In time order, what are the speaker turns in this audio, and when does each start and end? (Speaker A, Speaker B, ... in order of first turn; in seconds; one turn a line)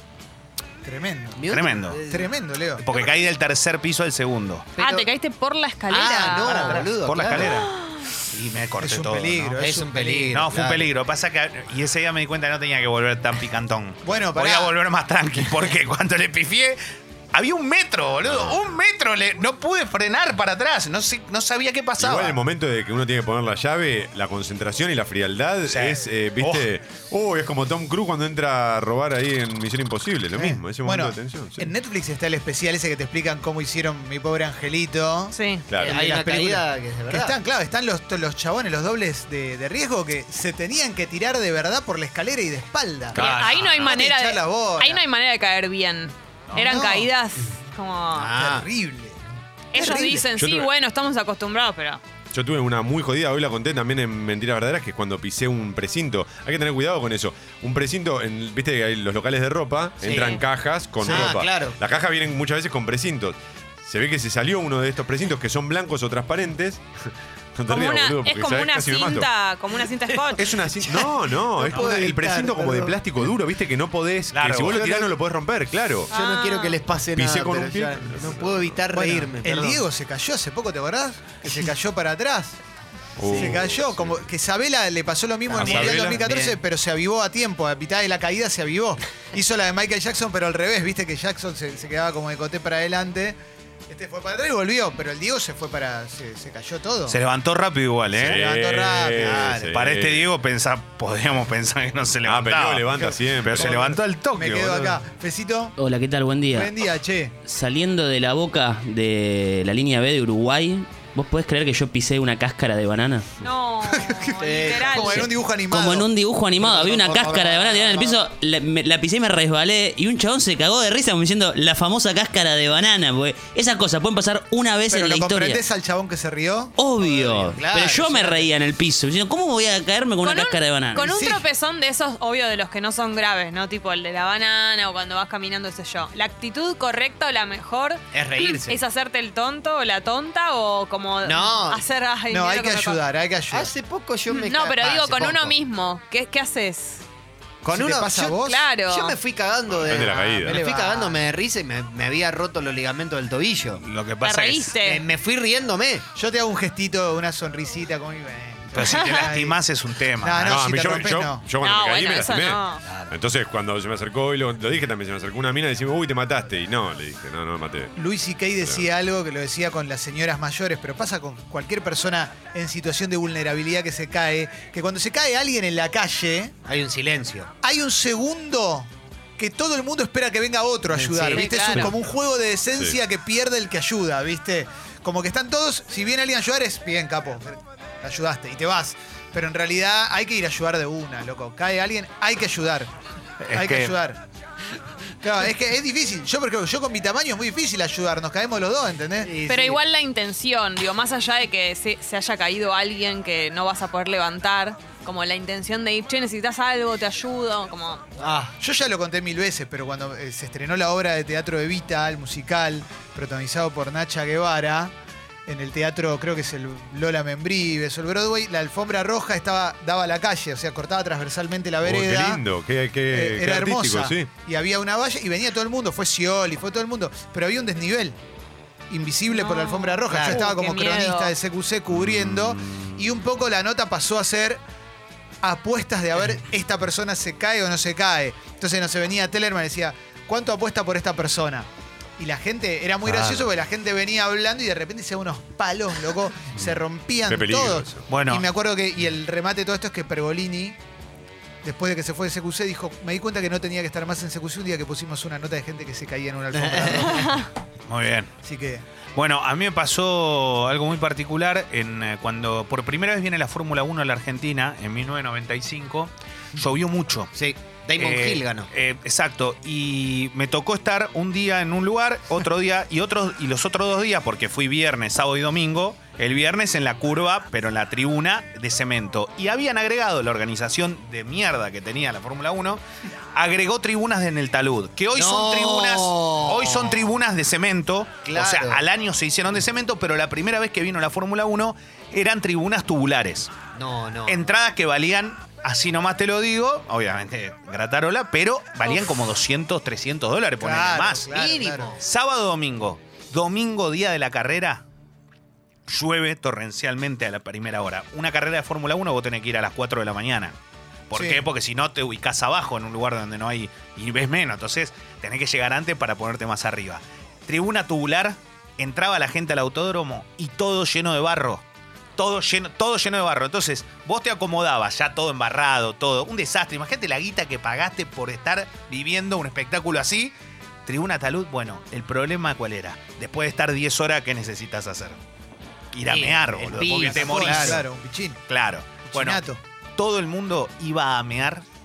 Speaker A: 0.8-1.5
Speaker B: 1.4-2.3
Speaker C: 1.5-2.0
Speaker A: 2.1-2.8
Speaker C: 2.8-4.7
Speaker B: 4.8-5.1
Speaker D: 4.8-6.8
Speaker B: 5.9-7.6
Speaker A: 6.0-6.7
Speaker C: 6.3-7.7
Speaker D: 7.5-8.0
Speaker C: 8.3-9.6
Speaker A: 8.8-10.4
Speaker B: 9.6-10.9
Speaker C: 10.3-16.8
Speaker A: 14.1-14.7
Speaker C: 17.3-22.4
Speaker E: 18.3-18.6
Speaker E: 22.0-31.7
Speaker C: 25.7-26.7
Speaker A: 30.4-45.0
Speaker D: 35.3-35.6
Speaker E: 35.7-35.9
Speaker B: 35.8-37.4
Speaker C: 43.1-43.9
Speaker D: 43.1-48.3
Speaker A: 46.5-47.1
Speaker B: 48.1-48.7
Speaker A: 48.4-49.2
Speaker D: 49.7-52.0
Speaker A: 49.7-50.2
Speaker E: 50.4-50.7
Speaker E: 52.3-66.8
Speaker B: 60.0-60.4
Speaker B: 61.0-61.8
Speaker E: 67.5-69.3
Speaker D: 67.7-70.4
Speaker E: 70.3-76.1
Speaker B: 70.8-73.0
Speaker A: 71.7-72.6
Speaker C: 74.3-74.8
Speaker B: 74.7-75.0
Speaker B: 76.1-79.8
Speaker D: 76.1-76.8
Speaker E: 77.2-78.8
Speaker A: 78.9-82.6
Speaker E: 83.2-84.3
Speaker A: 83.3-93.4
Speaker B: 83.3-83.6
Speaker B: 85.5-86.6
Speaker E: 85.6-86.3
Speaker A: 93.9-97.2
Speaker C: 97.1-98.4
Speaker E: 98.2-100.3
Speaker A: 98.2-99.7
Speaker B: 99.2-99.6
Speaker C: 99.5-105.0
Speaker E: 102.2-104.0
Speaker A: 103.1-105.8
Speaker F: 105.8-106.8
Speaker A: 106.5-107.3
Speaker F: 107.5-113.3
Speaker D: 113.4-115.3
Speaker A: 113.9-116.1
Speaker B: 114.4-115.0
Speaker F: 115.1-125.7
Speaker B: 116.6-118.2
Speaker A: 116.8-118.0
Speaker A: 124.9-126.8
Speaker F: 126.8-131.1
Speaker B: 127.0-128.5
Speaker D: 130.2-143.0
Speaker A: 131.0-131.4
Speaker B: 138.1-138.8
Speaker B: 141.2-141.8
Speaker A: 142.3-143.7
Speaker B: 143.5-145.6
Speaker D: 144.3-147.0
Speaker B: 147.6-153.8
Speaker A: 147.7-148.6
Speaker D: 148.4-149.2
Speaker E: 149.8-150.6
Speaker A: 149.9-151.2
Speaker C: 153.8-154.7
Speaker D: 154.2-155.0
Speaker B: 154.8-156.1
Speaker A: 156.2-159.6
Speaker C: 158.7-160.5
Speaker A: 160.2-161.4
Speaker E: 160.4-167.9
Speaker D: 161.6-162.8
Speaker C: 162.9-163.1
Speaker A: 168.0-176.5
Speaker B: 176.7-177.5
Speaker A: 177.6-192.9
Speaker B: 180.9-181.8
Speaker D: 181.2-181.9
Speaker C: 193.4-193.9
Speaker A: 193.5-194.2
Speaker A: 195.2-199.4
Speaker B: 199.2-199.8
Speaker D: 199.5-208.0
Speaker B: 208.2-208.6
Speaker A: 208.6-214.9
Speaker A: 215.5-222.4
Speaker E: 221.8-224.3
Speaker A: 223.1-228.2
Speaker A: 228.9-234.6
Speaker D: 229.3-231.3
Speaker B: 230.1-230.5
Speaker E: 231.9-233.1
Speaker A: 235.4-250.8
Speaker C: 243.0-243.5
Speaker E: 247.3-248.1
Speaker C: 248.1-248.5
Speaker A: 251.6-257.5
Speaker B: 256.5-257.4
Speaker C: 257.9-258.3
Speaker A: 258.4-258.8
Speaker C: 259.2-267.3
Speaker B: 267.3-268.7
Speaker C: 268.0-282.8
Speaker C: 283.4-293.5
Speaker B: 285.1-287.2
Speaker B: 288.2-288.8
Speaker B: 293.8-294.5
Speaker C: 294.3-301.3
Speaker A: 300.6-301.9
Speaker B: 301.3-302.0
Speaker C: 302.0-304.8
Speaker C: 305.9-310.6
Speaker C: 311.1-321.6
Speaker A: 311.1-311.4
Speaker C: 322.2-330.3
Speaker C: 330.9-335.2
Speaker C: 335.9-337.9
Speaker B: 336.0-337.8
Speaker A: 337.1-338.4
Speaker C: 338.5-339.4
Speaker A: 339.1-339.6
Speaker C: 340.0-341.6